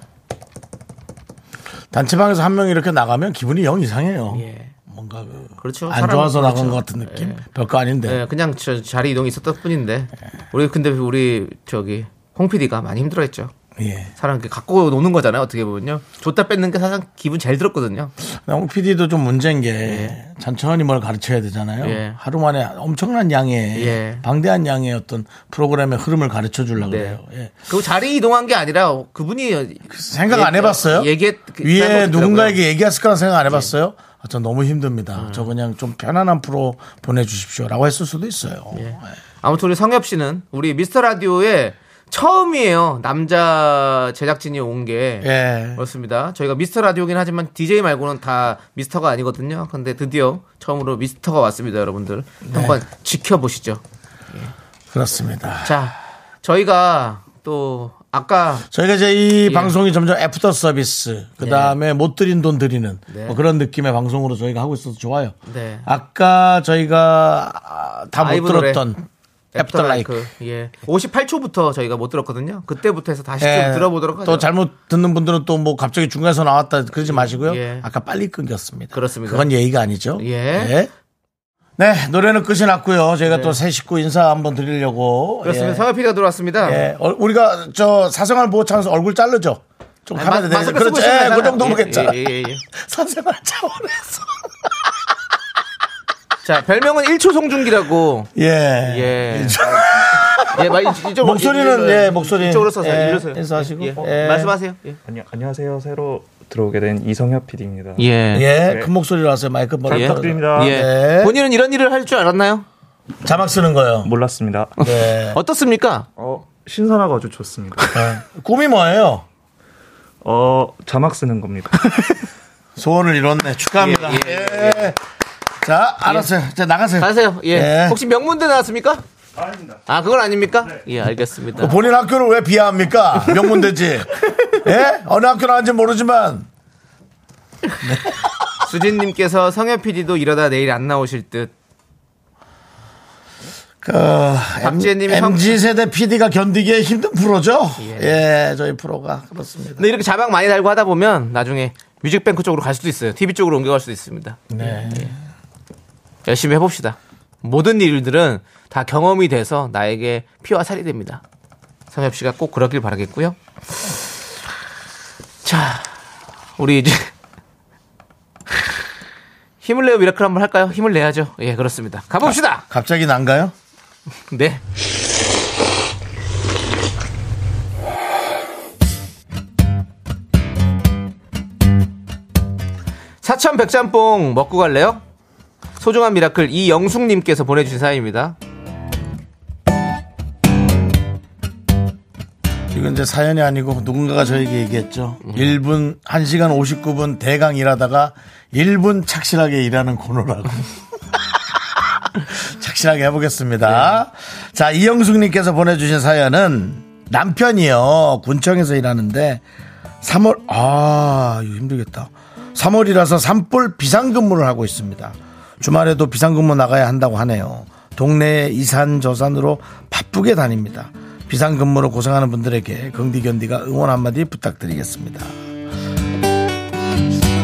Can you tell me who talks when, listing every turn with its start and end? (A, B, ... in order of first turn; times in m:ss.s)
0:01.9-0:08.2 A
0:04.3-0:04.7 B
0:05.6-0:07.4 B
0:08.0-0:13.5 B
0:13.8-0:14.1 A
0:14.2-0:18.1 B
0:18.2-0:27.5 A
0:19.9-0:20.2 B
0:21.8-0:22.2 B
0:23.7-0:24.2 B
0:26.8-0:32.6 B
0:29.9-0:39.0 A
0:35.2-0:35.5 B
0:38.7-0:53.8 B
0:45.2-0:45.8 A
0:52.4-0:52.8 A
0:54.9-0:55.8 A
0:55.6-0:58.7 B
0:58.7-1:10.2 A
0:59.5-0:59.8 B
1:01.4-1:01.8 B
1:03.1-1:03.4 B
1:05.5-1:05.9 B
1:08.2-1:08.8 B
1:09.6-1:14.5 B
1:13.4-1:20.9 A
1:17.0-1:17.9 B
1:18.9-1:19.5 B
1:20.2-1:20.8 B
1:21.8-1:25.8 A
1:23.3-1:23.6 B
1:25.4-1:26.8 B
1:26.6-1:34.5 A
1:30.2-1:32.6 B
1:36.4-1:38.3 B
1:38.4-1:44.5 A
1:38.8-1:39.6 B
1:40.5-1:45.0 B
1:45.0-1:48.1 C
1:48.0-1:48.5 B
1:48.3-1:51.4 A
1:48.6-1:48.9 C
1:49.9-1:50.8 C
1:49.9-1:52.7 B
1:53.2-1:54.1 A
1:54.0-1:54.8 C
1:54.8-1:55.4 A
1:54.8-1:56.1 B
1:56.2-1:58.2 C
1:57.9-1:59.3 A
2:00.2-2:02.2 C
2:02.8-2:05.0 A
2:03.8-2:05.0 B
2:05.6-2:08.0 A
2:06.0-2:06.3 B
2:07.0-2:09.0 B
2:09.9-2:11.8 B
2:11.6-2:16.5 A
2:17.8-2:18.3 A
2:18.6-2:21.5 B
2:23.8-2:29.9 A
2:24.6-2:25.6 B
2:27.8-2:28.2 B
2:29.8-2:35.1 B
2:34.5-2:35.2 A
2:36.3-2:41.2 B
2:41.9-2:43.9 B
2:45.4-2:45.9 B
2:46.6-2:47.1 B
2:49.6-2:52.6 B
2:52.2-2:53.5 A
2:54.3-2:54.6 B
3:03.2-3:05.0 B
3:05.8-3:08.4 B
3:12.7-3:29.4 A
3:15.2-3:15.6 B
3:23.7-3:24.0 B
3:30.0-3:45.4 A